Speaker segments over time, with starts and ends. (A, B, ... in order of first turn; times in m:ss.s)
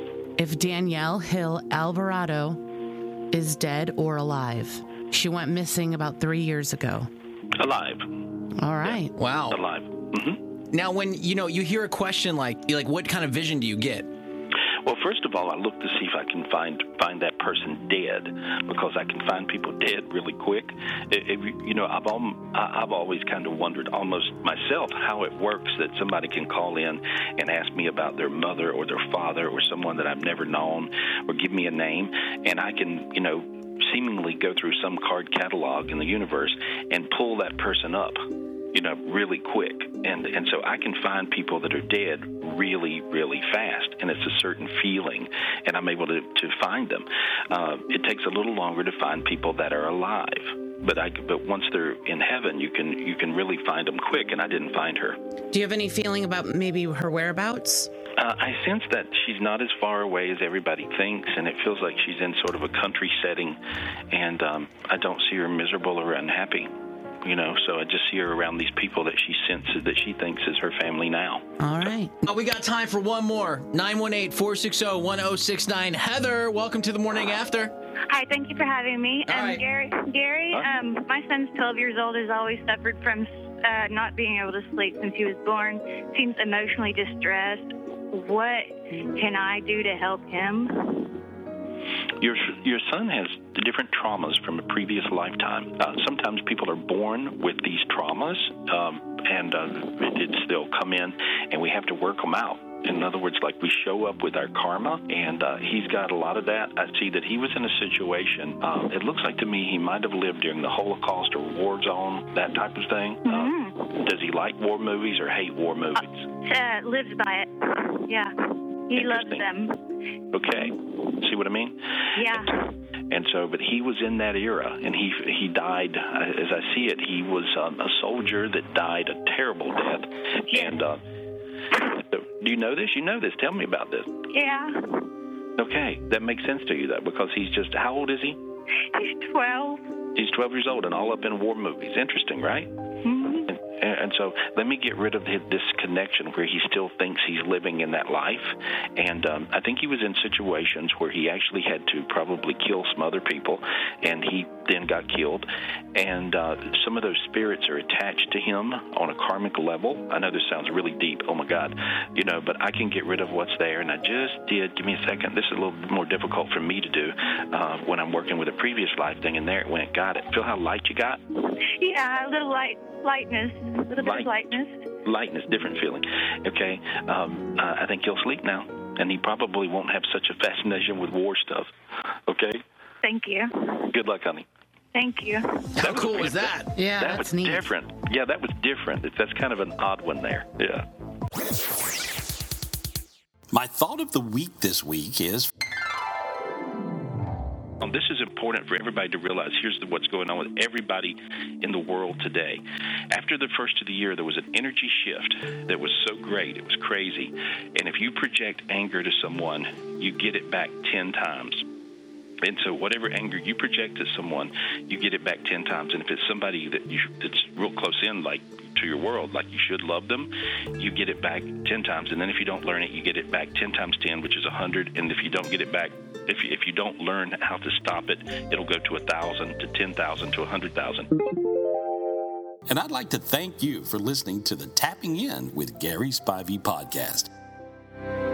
0:00.4-0:02.6 A
0:03.3-0:07.1 A
0:07.6-0:08.1 B
0:08.6-0:09.1 A
0:08.8-0:10.4 B
0:09.1-0:09.6 C
0:10.7-0:14.1 C
0:14.8-0:55.2 B
0:55.5-0:57.9 A
0:58.2-1:03.6 B
1:04.1-1:06.7 B
1:07.2-1:11.4 B
1:11.6-1:12.1 A
1:12.2-1:17.7 C
1:18.1-1:31.2 D
1:19.2-1:19.6 C
1:32.2-1:56.3 B
1:53.2-1:54.0 D
1:56.0-1:58.4 D
1:58.9-1:59.8 D
1:58.9-1:59.5 B
2:00.3-2:11.0 B
2:02.1-2:02.7 D
2:10.5-2:10.8 D
2:11.8-2:14.1 B
2:14.3-2:15.1 D
2:15.6-2:18.4 B
2:18.8-2:19.8 D
2:20.1-2:22.7 B
2:23.0-2:23.5 D
2:23.5-2:51.2 B
2:51.4-2:54.7 D
2:54.0-3:01.7 B
3:02.3-3:02.6 B
3:03.0-3:03.9 D
3:03.9-3:04.5 B
3:04.9-3:05.8 D
3:05.8-3:06.7 C
3:05.8-3:10.8 B
3:06.7-3:07.7 A
3:13.5-3:15.5 E
3:17.8-3:31.7 B
3:32.4-3:51.1 B
3:52.7-3:57.3 E